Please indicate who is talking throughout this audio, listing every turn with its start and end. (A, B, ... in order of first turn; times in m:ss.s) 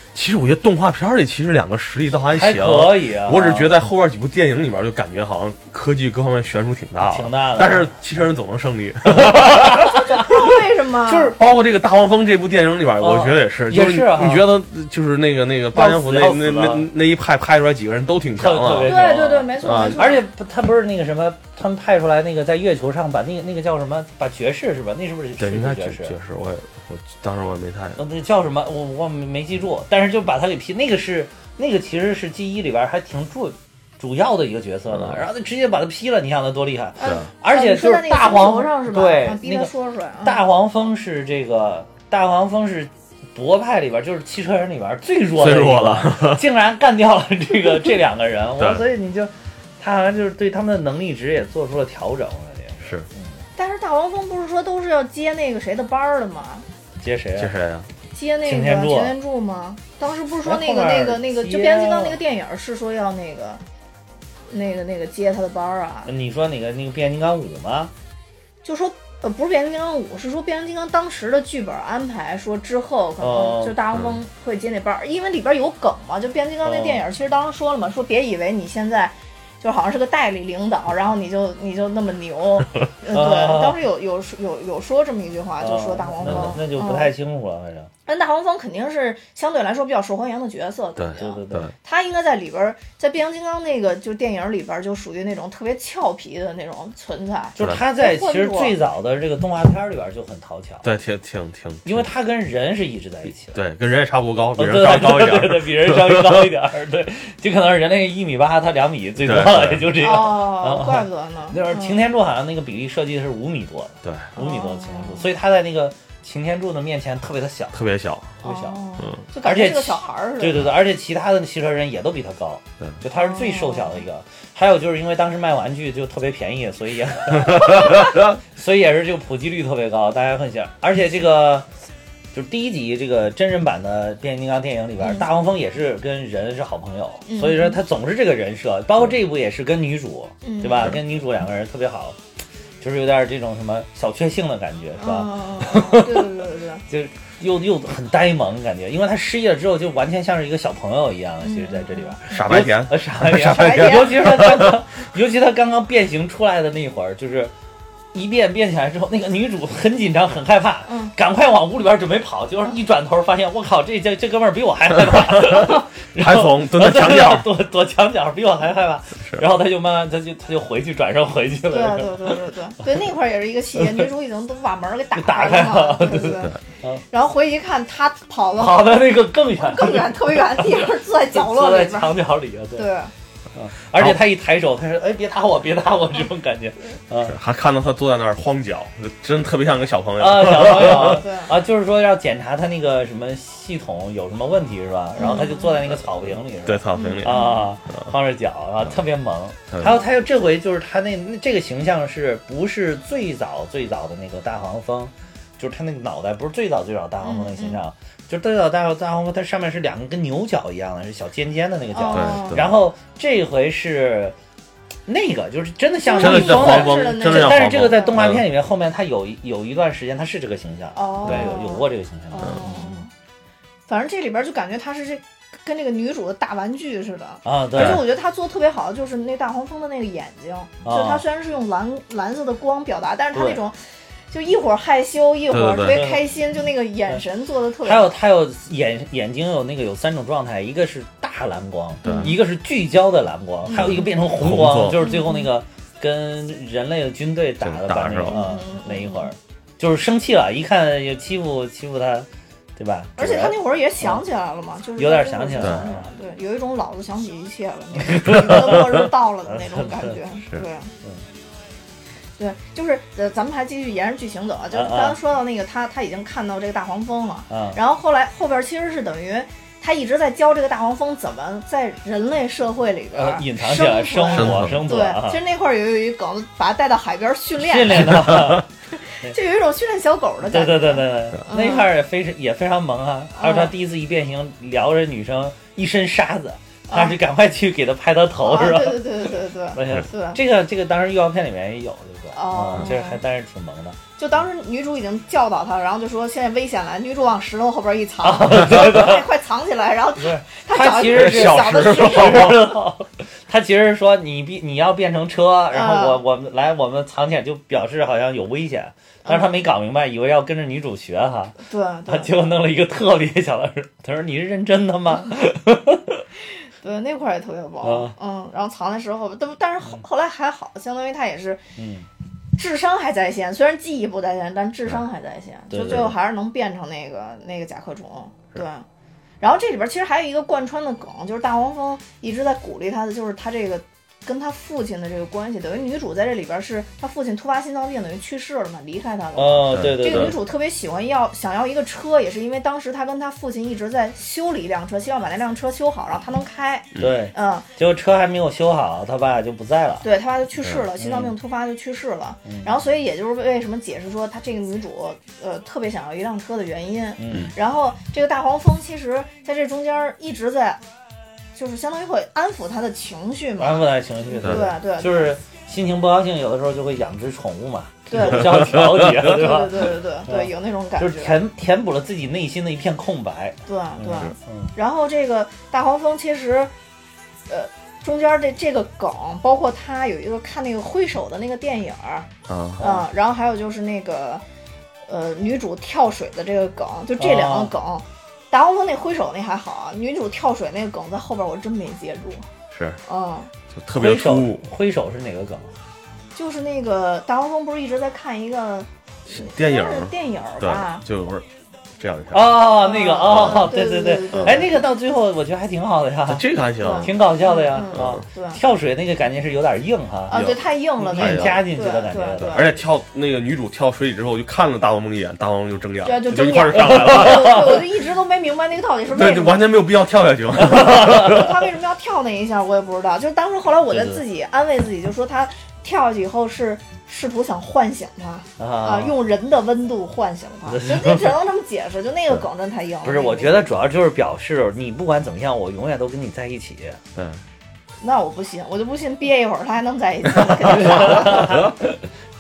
0:00.1-0:09.9 A
0:02.3-0:03.7 B
0:07.0-0:08.0 B
0:09.1-0:10.3 B
0:10.1-0:11.4 C
0:11.1-0:11.4 B
0:11.4-0:19.0 A
0:13.0-0:14.5 B
0:15.7-0:16.9 B
0:18.4-0:26.2 B
0:18.8-0:20.2 C
0:19.6-0:20.0 A
0:25.4-0:28.0 A
0:28.0-0:39.7 B
0:34.9-0:35.2 A
0:37.0-0:40.4 C
0:40.2-0:53.3 B
0:45.4-0:46.4 A
0:53.6-0:56.7 C
0:57.0-0:57.5 B
0:57.4-0:57.9 A
0:58.1-1:03.6 C
0:58.4-0:59.2 B
1:00.4-1:02.2 B
1:04.5-1:06.1 C
1:06.1-1:07.9 B
1:08.6-1:27.1 C
1:13.2-1:13.8 B
1:16.6-1:17.0 B
1:23.1-1:23.8 B
1:25.6-1:27.9 B
1:26.3-1:26.6 A
1:28.1-1:38.8 C
1:31.0-1:31.7 A
1:31.2-1:31.7 B
1:37.6-1:40.9 B
1:40.8-1:42.1 A
1:41.8-1:43.6 B
1:43.5-1:46.5 A
1:44.6-1:57.8 B
1:49.2-1:50.0 A
1:50.0-1:52.0 C
1:54.0-1:54.3 A
1:54.4-1:55.3 C
1:57.7-1:58.4 A
1:58.4-1:58.8 B
1:58.4-2:00.7 C
1:59.4-2:11.7 B
2:03.1-2:04.0 C
2:07.3-2:08.3 A
2:12.3-2:22.2 B
2:15.0-2:15.3 C
2:17.3-2:17.8 C
2:20.4-2:21.0 C
2:22.8-2:26.3 B
2:25.0-2:26.8 C
2:26.9-2:37.5 B
2:31.4-2:32.2 C
2:32.3-2:34.8 A
2:33.3-2:34.6 C
2:38.1-2:52.4 B
2:40.9-2:41.1 C
2:45.1-2:47.5 A
2:51.7-2:56.6 C
2:55.2-2:57.0 B
2:57.1-3:03.1 C
2:58.6-3:02.9 B
3:03.6-3:07.4 B
3:07.2-3:11.2 A
3:10.2-3:34.4 B
3:10.7-3:11.6 C
3:15.2-3:15.8 C
3:16.6-3:18.1 A
3:16.9-3:17.7 C
3:19.7-3:20.0 A
3:27.2-3:27.8 C
3:31.9-3:32.7 C
3:32.1-3:32.7 A
3:35.1-3:43.0 B
3:36.0-3:38.2 C
3:36.2-3:38.4 A
3:41.0-3:43.1 C
3:43.9-3:53.8 C
3:47.4-3:48.0 B
3:47.8-3:48.0 A
3:50.8-3:51.2 B
3:53.3-3:53.6 B
3:54.3-3:58.1 C
3:55.5-3:56.0 A
3:55.9-3:56.2 B
3:57.8-4:14.2 B
4:02.0-4:02.3 A
4:02.0-4:02.3 C
4:03.7-4:04.1 C
4:03.8-4:05.0 A
4:05.0-4:05.5 C
4:07.6-4:08.4 A
4:08.3-4:09.3 C
4:13.2-4:20.9 C
4:15.0-4:16.1 B
4:15.6-4:15.9 A
4:18.0-4:20.2 B
4:22.4-4:38.3 C
4:24.7-4:25.2 B
4:27.5-4:27.8 B
4:33.1-4:35.4 B
4:34.3-4:34.8 A
4:37.6-4:38.7 B
4:38.3-4:38.6 A
4:39.0-4:41.9 C
4:40.5-4:54.0 B
4:43.4-4:43.7 C
4:46.9-4:47.2 C
4:48.4-4:50.4 C
4:52.3-4:53.2 C
4:54.2-5:02.6 C
4:58.2-4:59.3 B
5:00.2-5:16.2 B
5:01.1-5:02.7 A
5:05.7-5:06.2 C
5:09.2-5:09.5 C
5:11.7-5:12.6 C
5:16.8-5:21.6 C
5:17.8-5:18.1 B
5:21.8-5:22.1 B
5:22.6-5:28.8 C
5:25.7-5:26.1 B
5:29.4-5:47.7 C
5:39.4-5:40.4 B
5:39.7-5:40.4 A
5:47.0-5:50.1 B
5:50.0-6:00.8 C
5:51.0-5:51.3 B
5:52.4-5:52.7 B
5:57.2-5:57.6 B
6:01.6-6:05.4 C
6:03.6-6:14.7 B
6:08.1-6:11.4 C
6:13.7-6:16.7 C
6:17.5-6:24.4 C
6:22.5-6:22.8 A
6:22.8-6:23.1 B
6:25.1-6:32.5 C
6:27.2-6:27.7 B
6:32.7-6:33.0 A
6:33.1-6:33.5 C
6:33.7-6:34.6 A
6:34.0-6:35.7 B
6:36.4-6:41.0 C
6:39.3-6:41.5 A
6:42.0-6:42.6 A
6:42.3-6:46.4 B
6:42.7-6:44.8 C
6:43.3-6:43.7 A
6:44.3-6:44.6 A
6:46.3-6:47.1 A
6:46.8-6:48.6 C
6:47.0-6:52.6 B
6:47.9-6:48.2 A
6:50.3-6:52.7 C
6:50.3-6:50.6 A
6:51.1-6:51.6 A
6:52.4-6:57.8 A
6:56.0-6:59.6 C
6:56.9-6:57.6 B
6:59.1-7:01.5 A
7:00.7-7:01.4 B
7:00.7-7:13.7 C
7:03.9-7:04.2 B
7:08.6-7:09.2 B
7:10.7-7:11.3 B
7:13.0-7:17.0 B
7:17.2-7:17.4 A
7:18.0-7:21.7 C
7:20.6-7:22.0 B